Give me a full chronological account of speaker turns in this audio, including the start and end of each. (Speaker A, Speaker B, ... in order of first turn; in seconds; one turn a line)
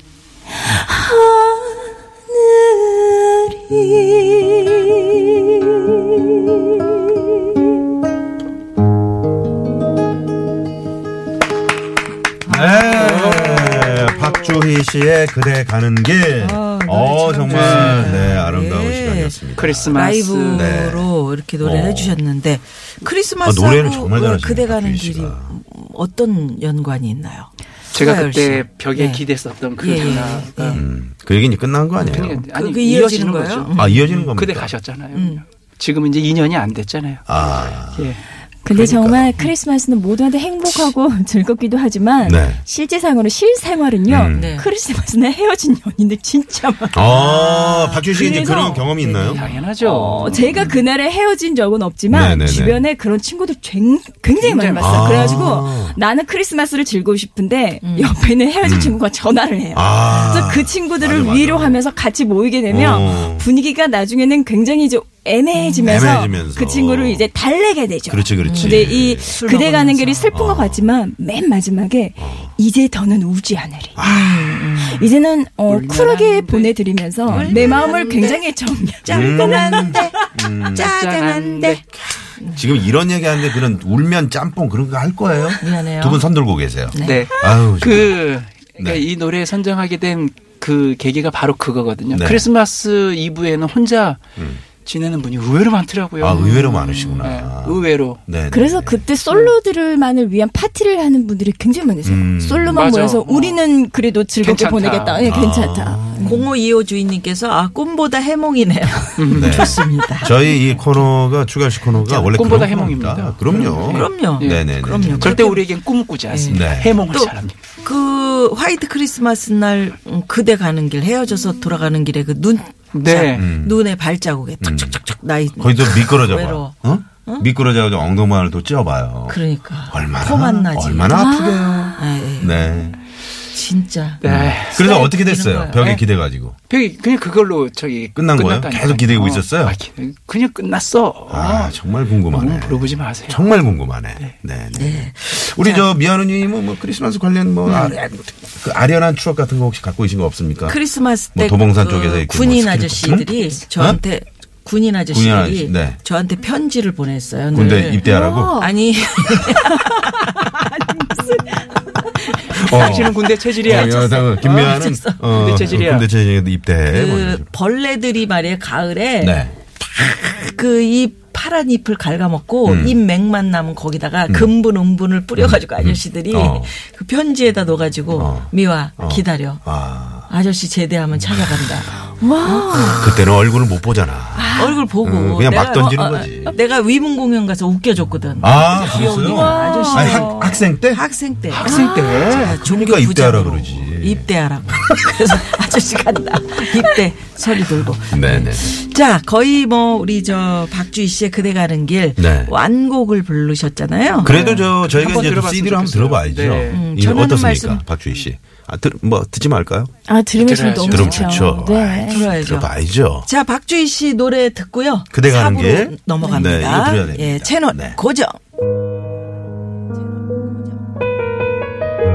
Speaker A: 0.6-7.0
Speaker B: 12.4-19.9
Speaker C: 12.8-13.4
Speaker D: 12.9-14.6
Speaker C: 16.4-29.2
Speaker D: 17.5-18.3
Speaker D: 19.6-20.7
Speaker B: 20.5-22.2
Speaker B: 23.4-25.5
Speaker D: 27.9-30.8
Speaker C: 29.8-30.8
Speaker B: 30.7-32.4
Speaker C: 31.9-34.0
Speaker D: 32.1-38.2
Speaker B: 33.7-34.7
Speaker C: 35.1-35.4
Speaker B: 37.3-38.1
Speaker A: 38.6-74.0
Speaker B: 38.7-39.5
Speaker B: 42.2-42.6
Speaker B: 44.1-44.6
Speaker C: 44.3-44.7
Speaker B: 46.9-49.5
Speaker C: 47.1-48.0
Speaker D: 49.2-50.4
Speaker C: 50.3-50.7
Speaker B: 50.4-50.7
Speaker B: 52.1-52.8
Speaker D: 54.4-55.5
Speaker B: 54.8-56.0
Speaker C: 57.8-58.2
Speaker B: 58.6-59.0
Speaker B: 59.7-61.8
Speaker C: 60.1-60.4
Speaker B: 62.7-63.5
Speaker C: 65.5-66.1
Speaker B: 65.8-67.3
Speaker B: 68.1-69.4
Speaker C: 68.4-70.3
Speaker B: 70.3-70.9
Speaker B: 72.2-72.5
Speaker B: 74.0-74.6
Speaker C: 74.0-75.1
Speaker A: 74.8-80.1
Speaker D: 75.7-76.8
Speaker B: 77.2-78.0
Speaker C: 77.3-78.5
Speaker C: 79.0-81.8
Speaker B: 79.1-80.9
Speaker D: 80.6-81.8
Speaker B: 82.4-88.2
Speaker C: 85.6-86.2
Speaker C: 86.9-87.3
Speaker D: 87.0-94.2
Speaker B: 88.8-89.0
Speaker B: 92.1-92.5
Speaker B: 94.4-94.6
Speaker D: 94.8-98.2
Speaker B: 96.2-99.0
Speaker C: 96.4-97.2
Speaker A: 98.5-106.3
Speaker B: 102.0-102.9
Speaker D: 102.7-103.6
Speaker D: 104.4-105.4
Speaker B: 105.2-106.5
Speaker C: 106.2-111.1
Speaker D: 109.2-109.8
Speaker B: 109.3-115.4
Speaker C: 111.9-112.3
Speaker D: 112.2-117.5
Speaker C: 113.5-117.3
Speaker B: 116.5-117.0
Speaker C: 117.8-127.5
Speaker D: 122.9-123.5
Speaker B: 123.3-123.8
Speaker B: 124.6-125.0
Speaker B: 125.6-133.0
Speaker C: 129.3-131.2
Speaker A: 131.1-132.0
Speaker C: 132.0-132.6
Speaker C: 133.5-134.2
Speaker D: 134.2-134.8
Speaker B: 134.2-136.6
Speaker C: 134.7-135.9
Speaker D: 136.7-143.5
Speaker B: 138.1-139.8
Speaker B: 141.3-150.8
Speaker C: 144.7-145.9
Speaker C: 150.7-160.6
Speaker B: 151.3-154.0
Speaker B: 155.1-156.0
Speaker B: 157.5-158.7
Speaker A: 158.0-161.8
Speaker D: 162.5-166.1
Speaker C: 162.6-165.3
Speaker B: 162.6-167.4
Speaker C: 166.9-179.6
Speaker B: 169.2-169.5
Speaker B: 172.6-173.0
Speaker B: 174.3-174.5
Speaker B: 175.4-176.7
Speaker B: 178.1-180.3
Speaker C: 180.3-183.3
Speaker A: 182.2-183.1
Speaker B: 183.0-186.5
Speaker A: 184.3-184.9
Speaker C: 184.6-204.6
Speaker B: 188.4-191.0
Speaker A: 188.8-190.6
Speaker D: 191.5-192.4
Speaker B: 191.6-194.2
Speaker B: 198.1-198.7
Speaker B: 202.2-202.5
Speaker B: 204.2-209.9
Speaker D: 204.2-206.8
Speaker C: 206.7-207.8
Speaker A: 210.1-212.3
Speaker D: 210.4-211.5
Speaker B: 210.8-213.3
Speaker C: 212.1-212.7
Speaker C: 213.2-218.4
Speaker B: 215.1-218.0